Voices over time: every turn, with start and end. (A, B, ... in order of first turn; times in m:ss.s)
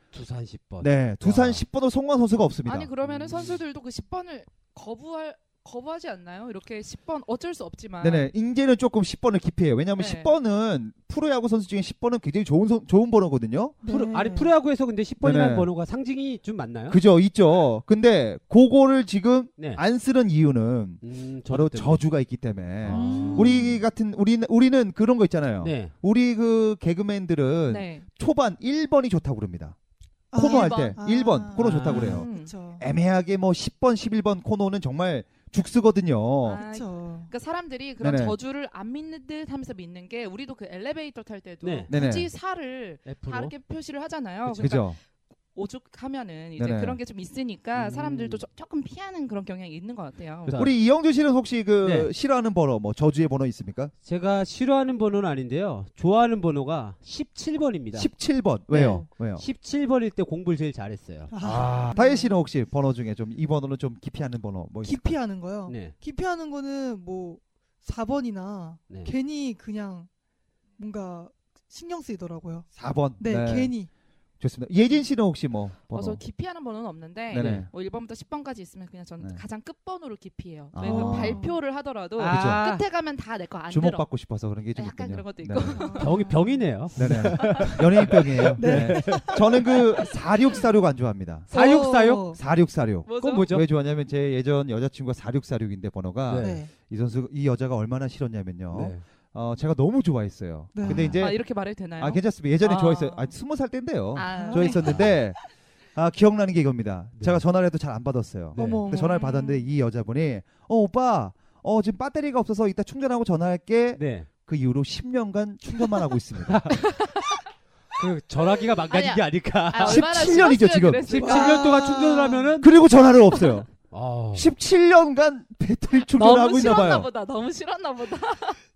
0:00.1-0:01.6 A
0:00.8-0:02.9 B
0:02.6-0:08.3 C
0:03.0-0:03.6 A
0:08.0-0:13.8 B
0:10.0-0:10.3 C
0:13.8-0:14.5 D
0:13.8-0:17.0 A
0:15.2-0:15.7 B
0:16.9-0:29.8 B
0:21.0-0:22.0 A
0:22.8-0:23.7 A
0:22.9-0:23.8 D
0:25.6-0:25.9 A
0:27.7-0:28.1 C
0:30.3-0:32.8 D
0:30.3-0:32.3 B
0:30.4-0:31.0 C
0:31.6-0:32.2 A
0:31.9-0:32.5 C
0:32.8-0:36.6 B
0:36.4-0:45.0 C
0:36.5-0:37.3 D
0:38.0-0:38.4 B
0:41.6-0:41.9 A
0:41.9-0:42.3 B
0:43.0-0:43.5 A
0:44.4-0:45.0 B
0:45.5-0:50.6 C
0:46.6-0:47.0 B
0:47.8-0:48.4 A
0:50.5-0:50.7 A
0:50.5-0:53.9 B
0:51.8-0:52.1 A
0:54.0-0:58.1 A
0:57.9-0:59.4 B
0:58.7-1:01.3 A
1:01.3-1:02.3 D
1:01.4-1:05.1 B
1:04.8-1:10.1 D
1:05.6-1:05.9 A
1:10.8-1:12.7 D
1:12.7-1:13.8 B
1:13.2-1:13.9 D
1:14.4-1:16.2 B
1:15.9-1:24.1 C
1:17.3-1:17.7 B
1:17.3-1:17.7 A
1:20.7-1:21.5 B
1:20.8-1:21.6 D
1:22.2-1:22.8 A
1:22.2-1:22.6 B
1:23.7-1:25.9 B
1:24.7-1:26.2 C
1:25.7-1:27.1 D
1:26.0-1:29.4 A
1:26.9-1:31.5 B
1:28.6-1:29.6 D
1:31.5-1:32.4 A
1:31.5-1:32.4 D
1:32.3-1:45.4 B
1:33.0-1:33.5 C
1:33.2-1:33.6 A
1:36.3-1:36.6 A
1:36.4-1:36.7 D
1:38.7-1:39.0 A
1:40.7-1:41.2 D
1:40.8-1:41.2 A
1:41.2-1:43.3 C
1:44.1-1:45.0 C
1:44.2-1:45.2 D
1:46.0-1:56.8 B
1:47.2-1:47.4 A
1:48.5-1:48.9 A
1:48.5-1:49.3 D
1:48.9-1:49.6 C
1:53.9-1:54.3 A
1:56.5-1:56.8 A
1:56.7-1:57.3 C
1:58.0-2:00.3 A
1:58.9-2:01.8 C
1:59.8-2:01.2 B
2:01.1-2:02.7 A
2:01.1-2:02.6 D
2:02.6-2:03.7 B
2:03.9-2:04.5 A
2:04.3-2:07.1 B
2:06.1-2:08.6 C